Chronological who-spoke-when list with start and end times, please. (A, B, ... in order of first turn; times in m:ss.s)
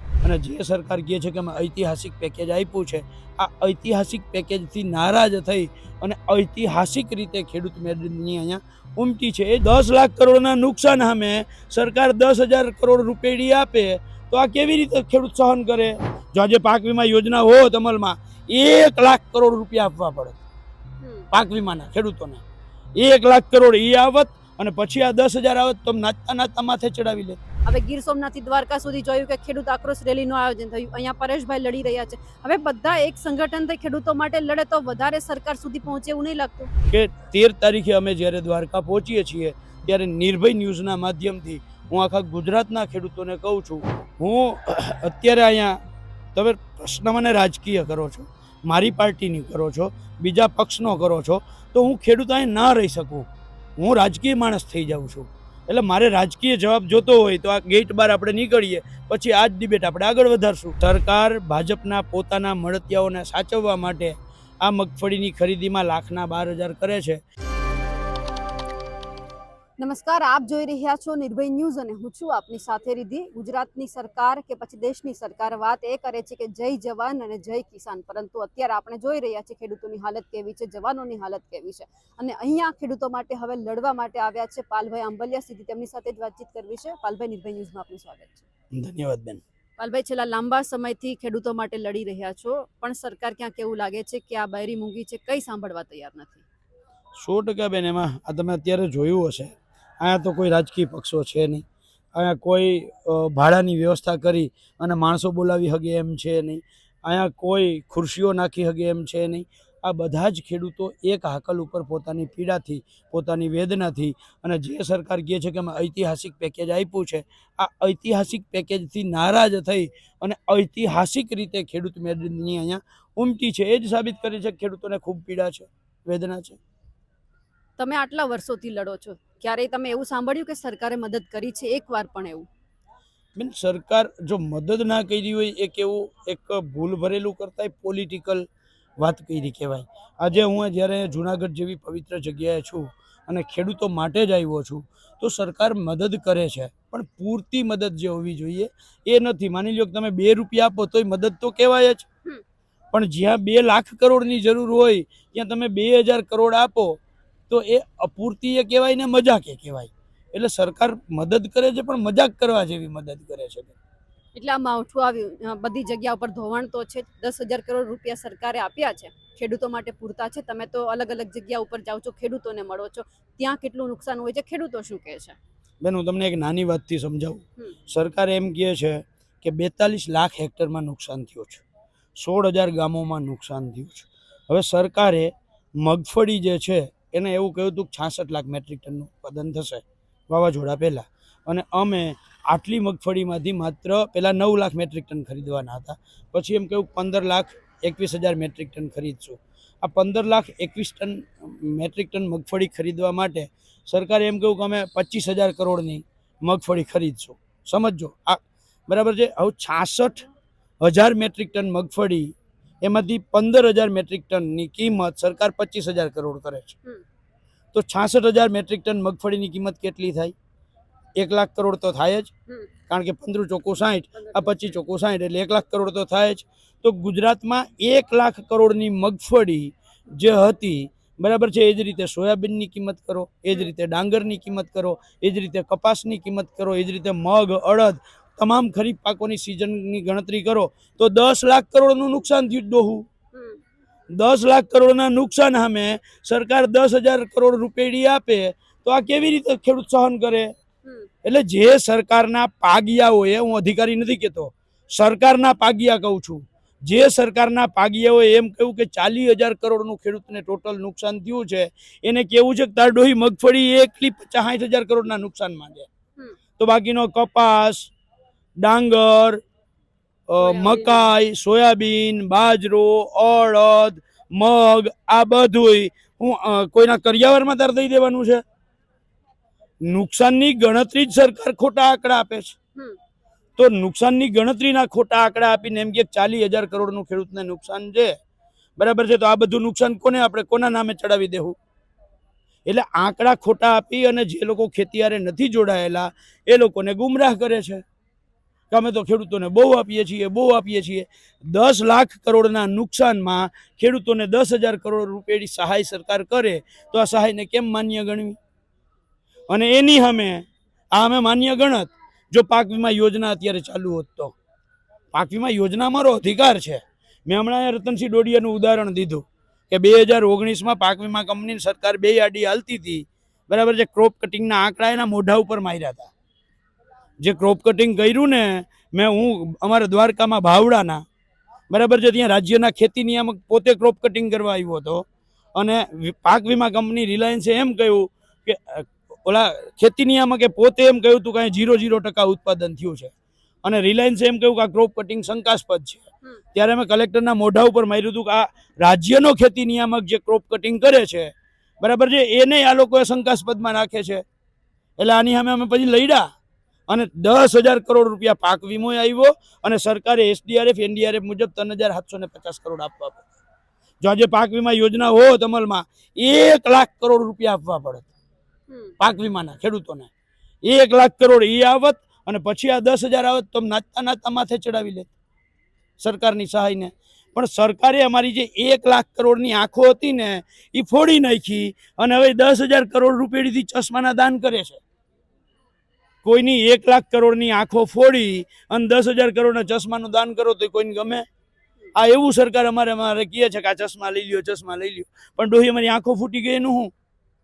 0:00.2-0:20.4 A
0:21.0-0:21.2 B
0:21.3-0:22.4 A
0:23.0-0:27.4 A
0:27.6-0:36.7 B
0:36.9-0:45.8 A
0:46.3-1:07.2 A
1:09.8-1:28.4 B
1:28.7-1:29.4 A
1:29.8-1:36.4 B
1:37.2-1:41.6 A
1:42.1-2:06.6 A
2:07.8-2:12.5 B
2:13.4-2:18.5 A
2:19.0-2:32.1 A
2:32.9-2:43.8 A
2:44.3-2:55.4 B
2:55.8-3:01.6 A
3:02.2-3:30.3 A
3:30.8-3:36.8 A
3:37.7-3:40.3 A
3:41.2-3:42.3 A
3:42.9-4:03.1 A
3:44.2-3:44.6 B
4:03.3-4:03.6 B
4:04.1-4:10.5 A
4:11.2-4:25.9 A
4:26.6-4:27.9 A
4:28.6-4:29.4 A
4:30.3-4:38.4 A
4:30.4-4:31.1 B
4:39.8-4:42.6 A
4:43.6-4:48.2 A
4:48.8-4:51.6 A
4:52.7-4:57.8 A
4:58.7-5:08.4 A
5:09.5-5:14.4 A
5:15.1-5:26.1 A
5:27.2-5:31.0 A
5:31.7-5:43.1 A
5:43.6-5:54.2 A
5:55.0-5:56.2 A
5:56.9-6:03.3 A
6:04.0-6:08.1 A
6:08.7-6:08.9 B
6:09.0-6:10.1 A
6:10.6-6:15.1 A
6:16.0-6:24.8 A
6:26.2-6:31.2 A
6:31.9-6:36.9 A